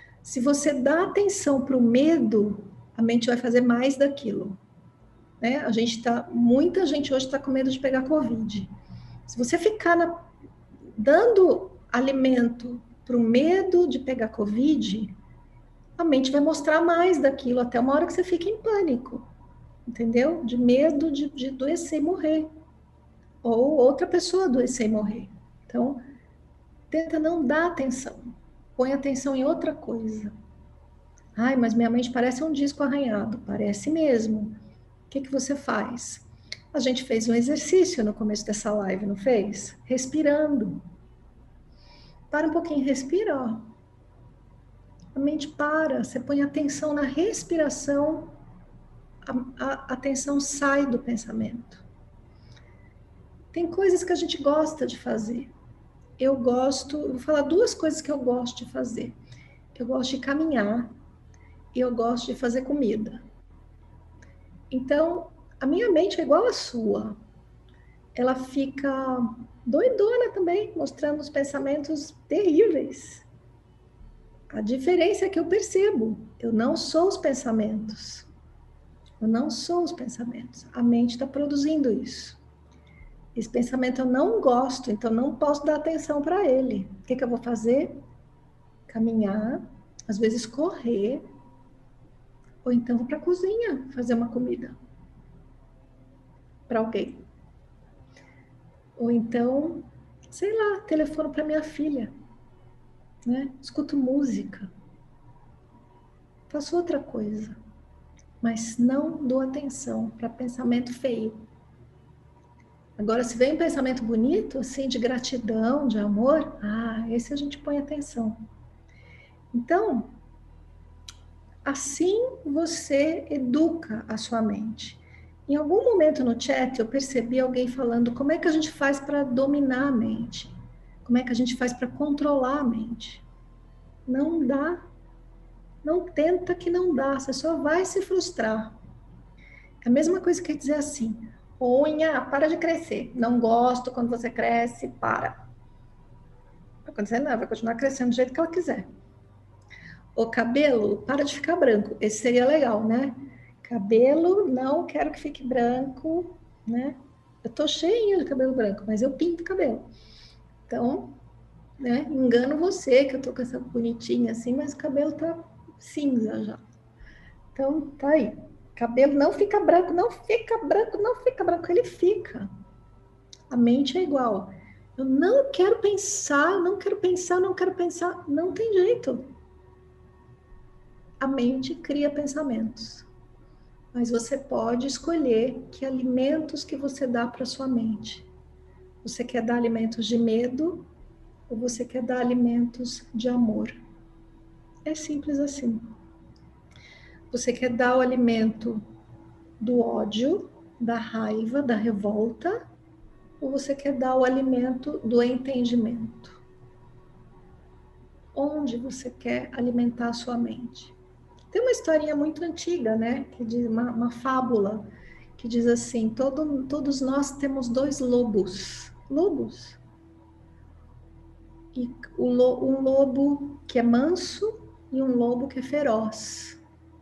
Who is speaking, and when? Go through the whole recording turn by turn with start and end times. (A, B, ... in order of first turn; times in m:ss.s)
0:00.2-0:04.6 A
0:05.4-0:08.7 A
0:09.3-0:10.2 A
0:10.9-0:15.1 A
0:16.0-0:19.2 A
0:19.9-0:22.5 A
0:23.4-0:26.0 A
0:26.9-0:30.3 A
0:31.4-0:34.6 A
0:35.1-0:40.8 A
0:42.3-0:43.6 A
0:45.1-0:48.3 A
0:49.2-0:51.8 A
0:53.5-0:55.5 A
0:56.2-0:59.2 A
0:59.7-1:00.9 A
1:01.7-1:03.2 A
1:04.7-1:07.2 A
1:08.1-1:13.3 A
1:14.5-1:18.3 A
1:19.2-1:22.4 A
1:23.4-1:28.0 A
1:28.9-1:31.2 A
1:32.6-1:34.7 A
1:36.7-1:37.2 A
1:39.0-1:42.1 A
1:43.2-1:44.7 A
1:46.5-1:47.6 A
1:48.4-1:51.4 A
1:53.0-1:58.4 A
1:59.5-2:00.1 A
2:01.6-2:13.2 A
2:14.1-2:14.8 A
2:15.8-2:18.8 A
2:19.8-2:25.4 A
2:26.9-2:28.9 A
2:30.2-2:39.9 A
2:40.7-2:41.2 A
2:41.8-2:46.6 A
2:47.6-2:52.5 A
2:53.5-2:59.3 A
3:01.2-3:03.1 A
3:03.9-3:08.3 A
3:09.0-3:10.9 A
3:11.5-3:13.8 A
3:14.8-3:15.9 A
3:17.3-3:18.8 A
3:19.6-3:22.6 A
3:23.4-3:26.4 A
3:28.3-3:30.9 A
3:31.5-3:34.8 A
3:35.4-3:39.8 A
3:41.7-3:46.6 A